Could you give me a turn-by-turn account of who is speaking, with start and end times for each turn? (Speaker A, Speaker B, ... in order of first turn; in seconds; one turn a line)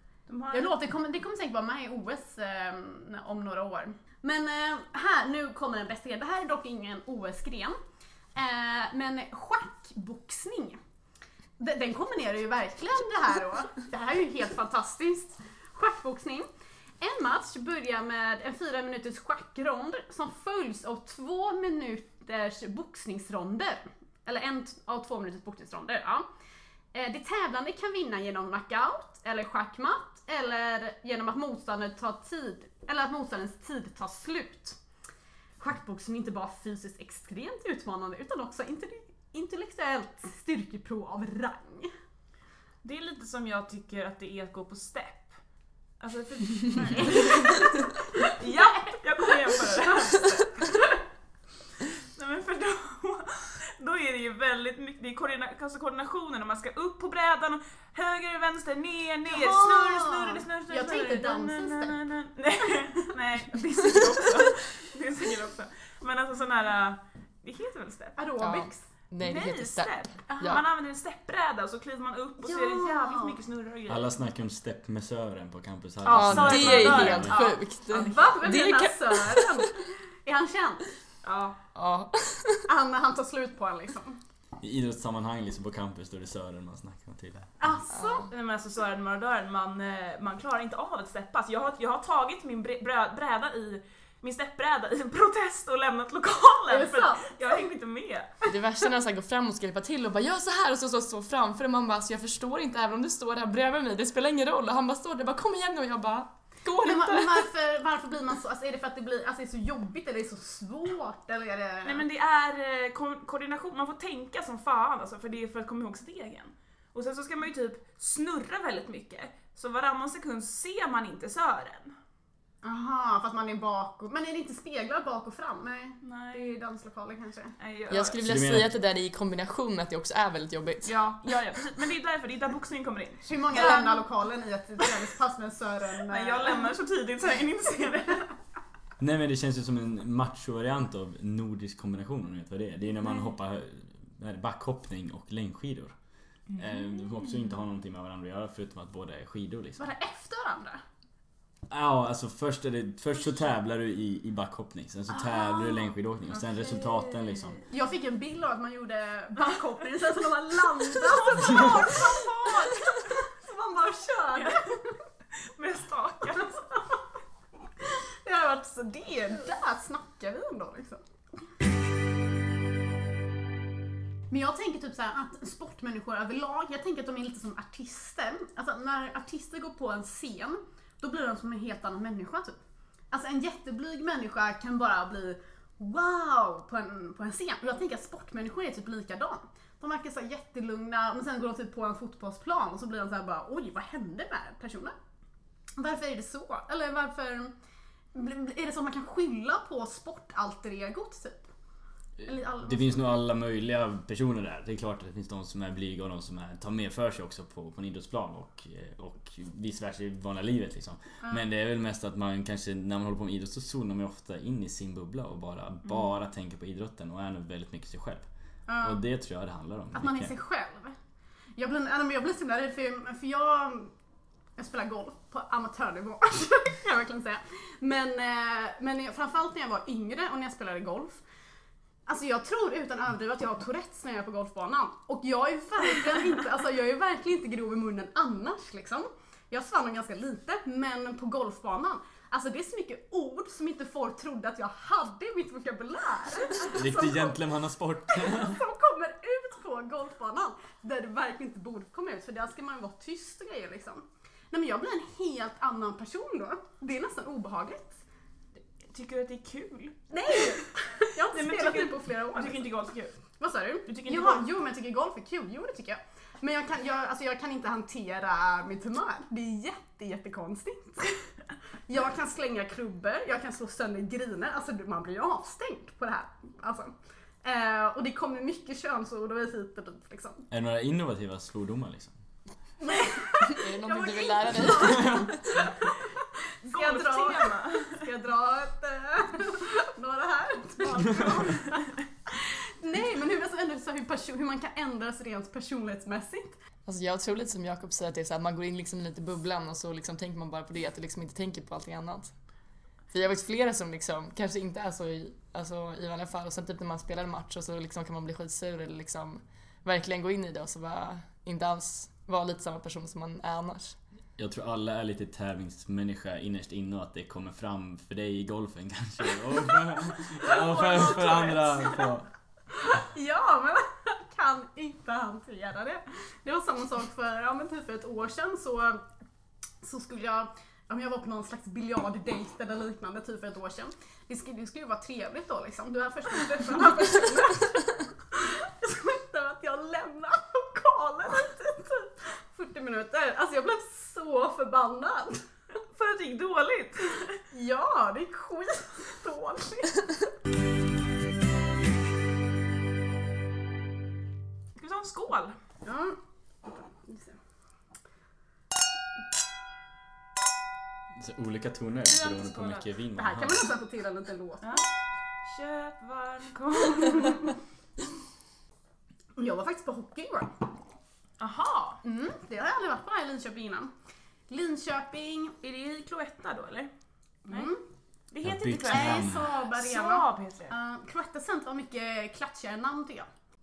Speaker A: 0.3-0.7
Speaker B: 0.5-7.8
Speaker B: 8.3-10.8
Speaker B: 11.6-16.5
Speaker B: 17.0-26.3
Speaker B: 26.9-34.8
Speaker B: 35.6-41.9
Speaker A: 42.8-45.4
Speaker A: 46.0-50.9
Speaker B: 46.8-49.5
Speaker A: 51.8-68.2
Speaker B: 59.3-62.0
Speaker B: 68.2-68.9
Speaker C: 68.4-70.6
Speaker A: 69.2-74.1
Speaker B: 70.3-70.6
Speaker B: 72.4-73.4
Speaker D: 73.9-77.3
Speaker A: 76.1-77.6
Speaker C: 76.1-79.7
Speaker B: 76.5-80.9
Speaker A: 81.2-81.6
Speaker C: 81.8-82.7
Speaker B: 82.7-84.2
Speaker D: 84.6-87.5
Speaker B: 87.6-88.3
Speaker C: 88.0-88.2
Speaker A: 88.3-98.3
Speaker B: 96.7-97.5
Speaker C: 98.5-107.5
Speaker B: 106.8-112.0
Speaker A: 111.8-122.0
Speaker B: 122.6-127.5
Speaker A: 126.0-126.5
Speaker A: 127.6-128.2
Speaker C: 127.9-131.3
Speaker D: 128.2-128.7
Speaker A: 130.8-134.1
Speaker B: 133.2-136.7
Speaker A: 136.1-138.3
Speaker D: 139.0-145.9
Speaker A: 146.5-147.4
Speaker D: 146.6-149.9
Speaker B: 149.8-150.8
Speaker D: 151.7-157.6
Speaker B: 155.5-155.8
Speaker A: 156.3-157.6
Speaker B: 157.7-164.9
Speaker A: 160.9-163.2
Speaker A: 164.3-164.8
Speaker A: 165.4-166.8
Speaker B: 167.8-171.0
Speaker B: 174.3-182.6
Speaker B: 183.1-194.9
Speaker B: 195.8-197.5
Speaker B: 198.1-201.5
Speaker D: 202.2-218.3
Speaker B: 202.2-203.1
Speaker A: 215.9-216.1
Speaker B: 218.7-219.0
Speaker D: 218.8-220.3
Speaker B: 219.9-221.0
Speaker B: 221.6-223.9
Speaker B: 224.6-231.2
Speaker B: 232.1-247.4
Speaker D: 246.7-248.6
Speaker B: 248.1-258.0
Speaker A: 258.9-260.6
Speaker B: 260.1-262.7
Speaker A: 261.2-263.1
Speaker B: 263.4-271.2
Speaker A: 263.9-264.4
Speaker B: 271.9-280.5
Speaker D: 280.5-282.1
Speaker B: 282.8-286.1
Speaker C: 283.4-285.5
Speaker D: 284.9-285.3
Speaker A: 286.6-288.1
Speaker B: 286.7-296.6
Speaker A: 290.8-291.9
Speaker C: 296.9-302.3
Speaker C: 303.1-314.0
Speaker D: 314.4-322.3
Speaker A: 320.5-321.9
Speaker B: 320.8-321.2
Speaker B: 322.7-329.0
Speaker B: 329.8-345.4
Speaker A: 345.9-347.4
Speaker B: 347.5-350.1
Speaker A: 354.8-355.6
Speaker B: 355.9-356.2
Speaker B: 356.8-357.4
Speaker D: 361.2-363.7
Speaker A: 362.1-362.9
Speaker B: 363.2-364.8
Speaker A: 365.4-367.6
Speaker B: 369.4-370.6
Speaker A: 371.4-372.0
Speaker B: 372.0-373.9
Speaker B: 374.5-375.6
Speaker A: 375.6-376.9
Speaker B: 377.5-377.8
Speaker A: 378.3-380.7
Speaker D: 378.4-379.5
Speaker B: 378.7-383.3